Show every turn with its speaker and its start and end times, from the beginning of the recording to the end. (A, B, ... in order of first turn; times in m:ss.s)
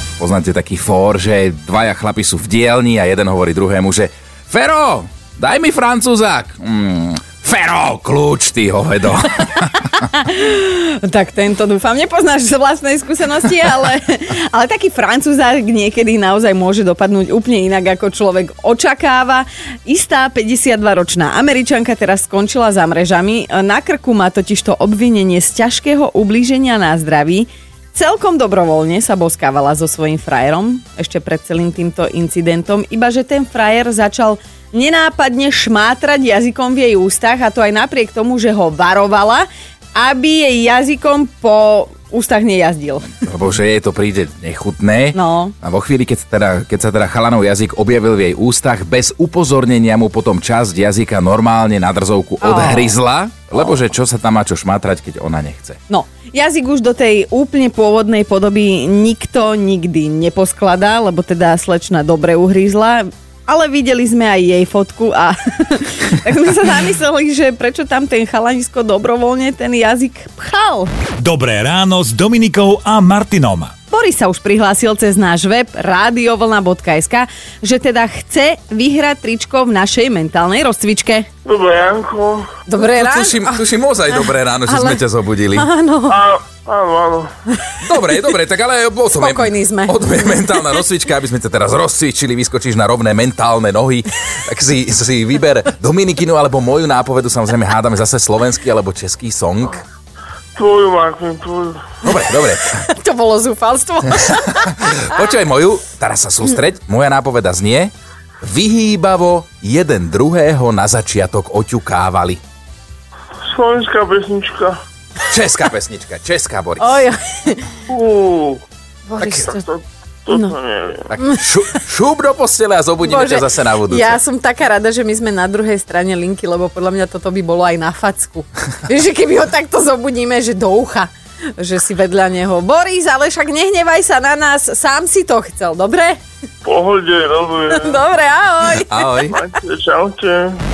0:00.2-0:10.0 A
0:10.0-0:43.1 B
0:43.2-0:55.8 A
0:45.1-0:45.5 B
0:52.4-0:52.9 B
0:55.9-1:10.9 B
1:11.2-1:13.7 C
1:13.9-1:21.3 B
1:21.4-1:22.5 D
1:22.7-1:25.0 B
1:22.8-1:25.7 A
1:25.5-1:26.2 B
1:26.1-1:27.3 D
1:27.8-1:39.8 A
1:29.1-1:29.9 B
1:40.6-1:42.0 D
1:42.0-1:42.8 A
1:42.8-1:45.1 B
1:44.7-1:52.4 A
1:53.4-1:54.8 D
1:55.3-1:57.0 A
1:56.8-1:57.8 B
1:57.9-1:58.6 D
1:59.1-1:59.6 B
1:59.5-2:01.0 D
2:00.3-2:00.5 B
2:01.1-2:04.2 A
2:01.2-2:01.4 B
2:03.0-2:16.2 B
2:16.6-2:18.0 D
2:17.8-2:19.4 B
2:18.8-2:19.4 A
2:19.3-2:20.6 D